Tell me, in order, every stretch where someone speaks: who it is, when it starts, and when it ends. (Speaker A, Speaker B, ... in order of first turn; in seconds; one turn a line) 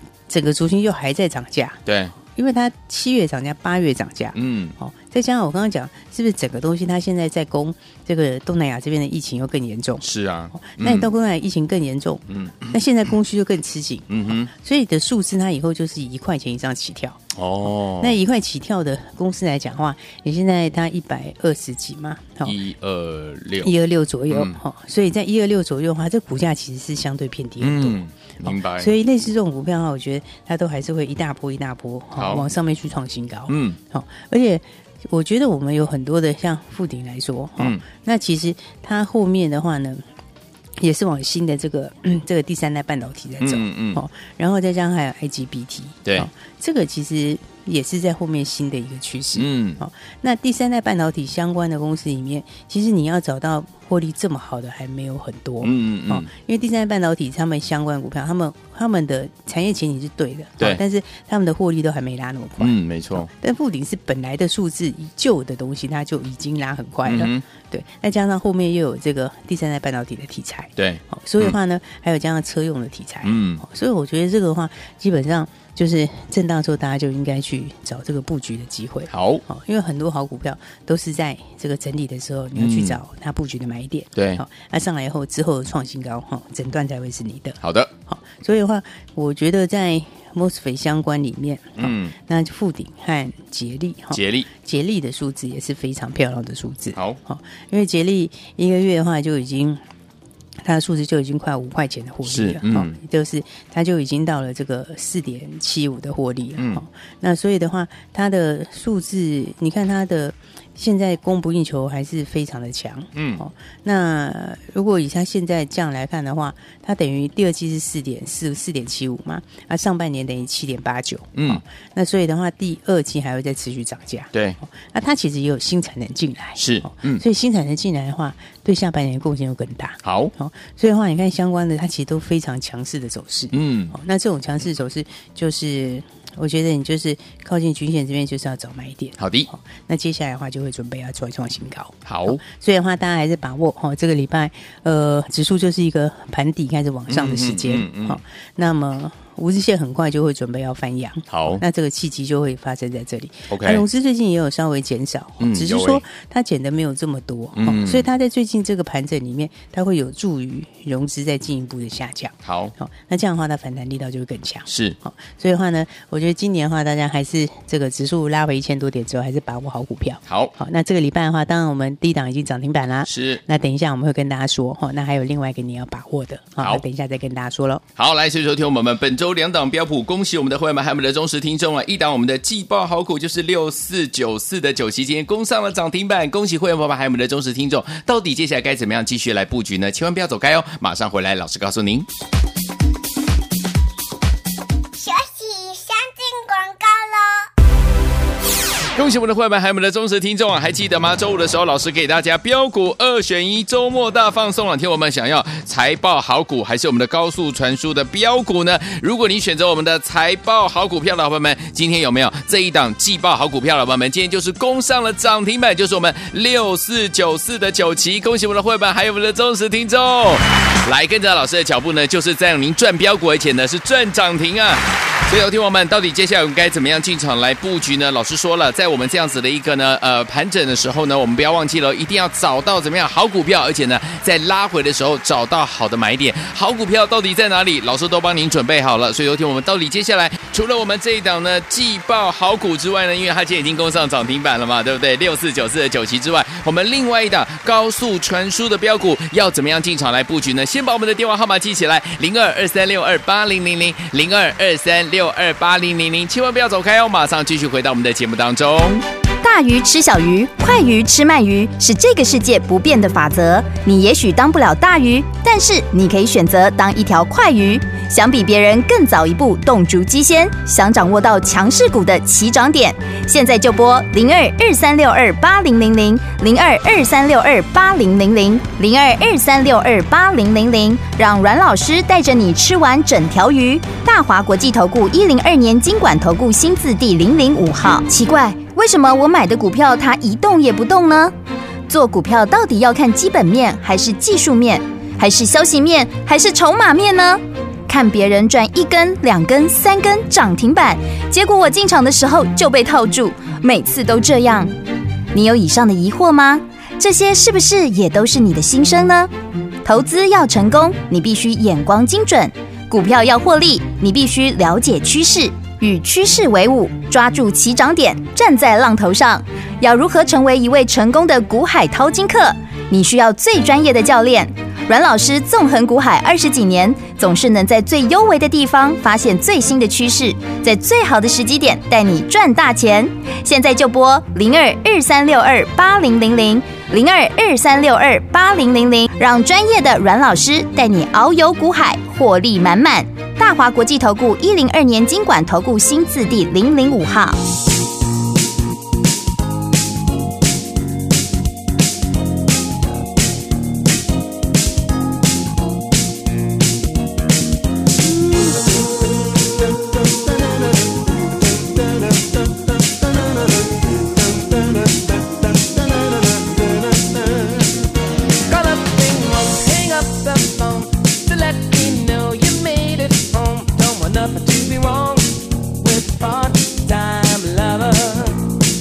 Speaker A: 0.3-17.2
Speaker B: 1.9-2.1
Speaker B: 4.3-4.8
Speaker B: 10.0-11.1
Speaker B: 12.3-12.7
Speaker B: 14.1-14.5
Speaker B: 17.4-18.2
Speaker A: 18.0-22.6
Speaker B: 22.4-23.7
Speaker A: 23.6-40.0
Speaker B: 24.3-24.6
Speaker B: 27.6-28.9
Speaker B: 32.2-32.5
Speaker B: 33.5-33.8
Speaker B: 37.6-37.8
Speaker A: 40.8-99.8
Speaker B: 43.4-44.0
Speaker B: 49.4-49.8
Speaker B: 55.6-56.3
Speaker B: 62.6-63.3
Speaker B: 67.0-67.5
Speaker B: 70.8-71.6
Speaker B: 73.2-73.6
Speaker B: 79.1-79.4
Speaker B: 82.5-83.0
Speaker B: 84.2-84.4
Speaker B: 87.6-87.9
Speaker B: 91.8-92.1
Speaker B: 94.1-94.5
Speaker A: 100.6-177.8
Speaker B: 102.2-103.0
Speaker B: 106.6-106.8
Speaker B: 113.2-113.4
Speaker B: 121.3-121.6
Speaker B: 124.3-124.6
Speaker B: 126.6-127.2
Speaker B: 130.0-130.3
Speaker B: 133.5-133.9
Speaker B: 139.2-139.5
Speaker B: 142.1-142.4
Speaker B: 147.1-148.2
Speaker B: 151.3-151.6
Speaker B: 153.5-153.8
Speaker B: 155.4-156.0
Speaker B: 157.6-158.1
Speaker B: 162.4-162.7
Speaker B: 164.7-165.0
Speaker B: 170.3-170.6
Speaker B: 173.1-173.4
Speaker B: 178.0-192.1
Speaker C: 195.0-197.5
Speaker B: 198.9-259.0
Speaker D: 259.4-291.3
Speaker D: 291.9-304.7
Speaker D: 305.3-309.3
Speaker D: 309.9-347.4
Speaker E: 358.2-358.8
Speaker E: 364.3-367.7
Speaker E: 368.5-378.5